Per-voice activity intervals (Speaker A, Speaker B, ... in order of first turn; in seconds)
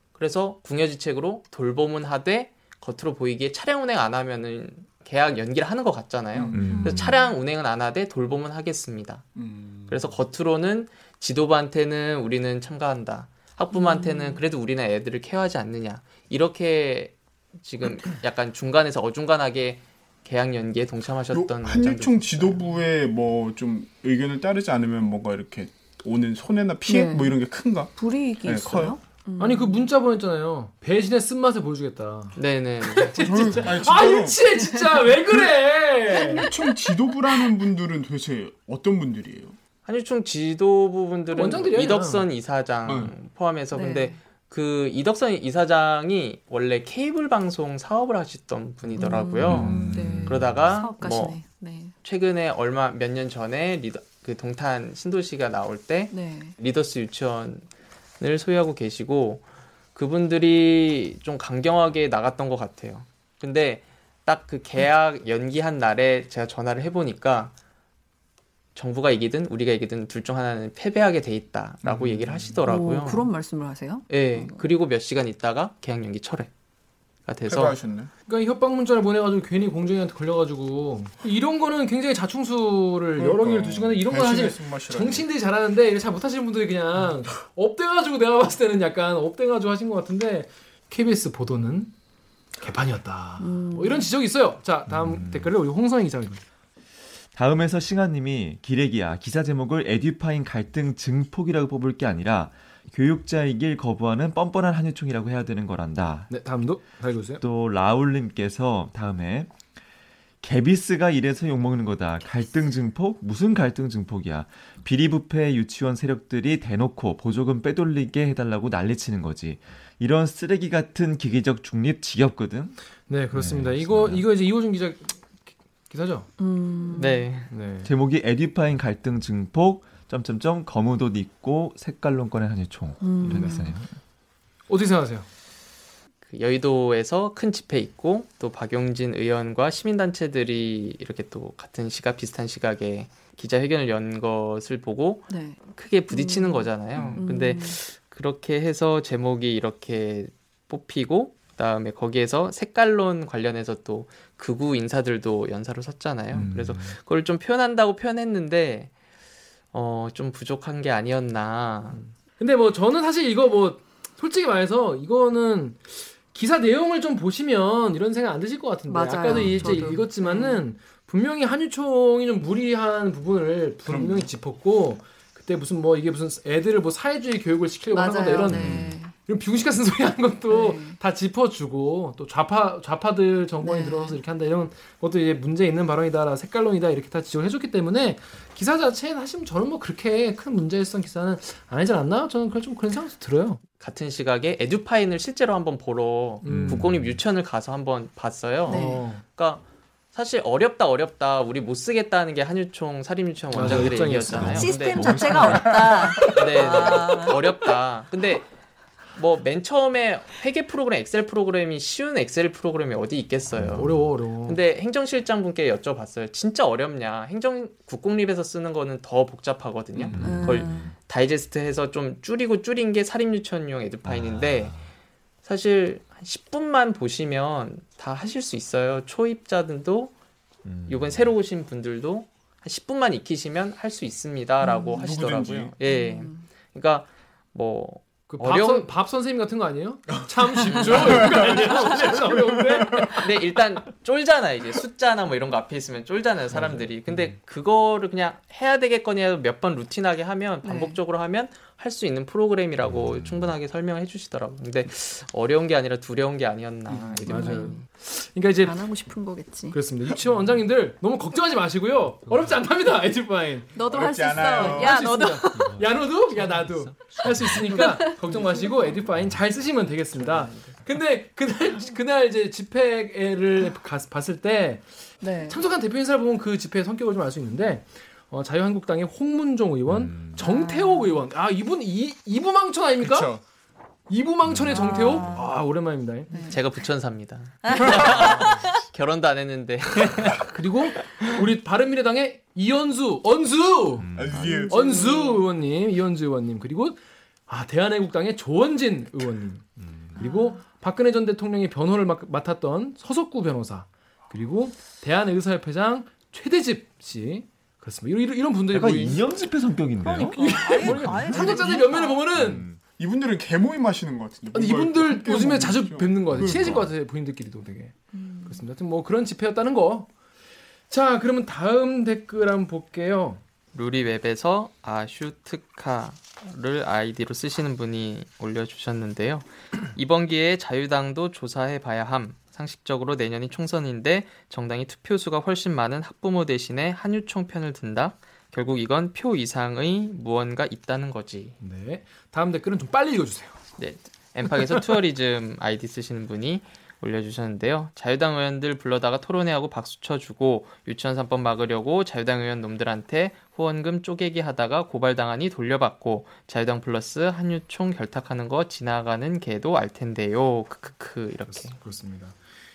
Speaker A: 0.1-9.3, 9.9-22.7, 32.4-33.7, 39.9-51.4, 52.0-57.7, 58.2-59.4, 60.0-67.5, 68.8-73.3, 74.1-76.5, 77.3-77.8, 127.0-127.5, 136.3-158.9, 159.7-162.0, 193.8-199.6, 200.1-208.5, 209.1-224.8, 225.4-230.1, 230.9-238.9, 243.0-257.8, 270.2-270.7, 286.5-290.5, 323.7-341.6, 343.8-361.8
Speaker B: 6.3-6.8, 9.4-10.1, 21.3-27.9, 28.4-29.0, 33.2-34.4, 36.1-39.5, 42.9-43.1, 71.8-72.5, 77.5-78.1, 83.2-85.3, 146.9-147.2, 173.9-174.3, 205.0-206.5, 220.0-220.4, 234.9-235.8, 240.8-241.7, 242.2-242.6, 263.9-265.4, 283.0-283.4, 294.1-295.0, 310.4-311.7, 313.0-316.9
Speaker C: 6.5-7.2, 49.4-50.8, 94.9-95.5, 97.3-106.3, 107.4-109.5, 110.4-122.8, 123.3-124.3, 127.8-133.9, 156.3-157.0, 169.3-169.8, 178.5-178.9, 196.4-197.2, 203.6-206.1, 213.5-214.1, 220.1-220.9, 224.1-224.9, 230.7-231.3, 252.8-253.6, 265.5-268.1, 279.9-280.4, 284.5-284.8, 294.0-294.5, 299.8-300.1, 308.7-311.5, 312.4-312.8, 316.3-316.9
Speaker D: 6.7-7.3, 13.7-14.4, 26.9-27.4, 28.0-29.8, 34.7-35.0, 36.2-36.7, 43.7-44.2, 49.0-51.9, 56.1-56.5, 72.7-74.6, 93.4-94.1, 126.4-127.3, 133.0-133.8, 145.3-145.6, 146.1-147.8, 168.9-170.6, 177.9-179.1, 180.5-181.0, 183.6-184.2, 198.7-199.1, 204.4-207.6, 220.2-220.9, 234.6-235.1, 235.8-236.4, 250.6-251.0, 257.3-257.9, 258.6-260.1, 263.8-265.8, 267.7-268.7, 275.2-275.6, 280.4-281.2, 284.7-285.5, 286.3-286.6, 287.6-288.7, 294.3-295.4, 300.2-300.6, 310.0-312.2, 318.1-318.6
Speaker E: 29.4-36.5, 41.3-42.3, 78.3-91.9, 92.6-96.4, 106.3-107.4, 123.1-126.3, 127.5-127.9, 134.7-135.3, 161.9-193.6, 196.4-196.9, 198.7-199.2, 203.5-204.8, 213.7-214.6, 238.3-243.4, 246.5-246.9, 256.9-258.8, 259.7-263.7, 264.5-283.4, 284.1-286.5, 290.5-294.1, 294.7-309.3, 310.3-312.7, 314.5-320.1, 320.9-323.4, 341.6-343.6, 361.5-362.4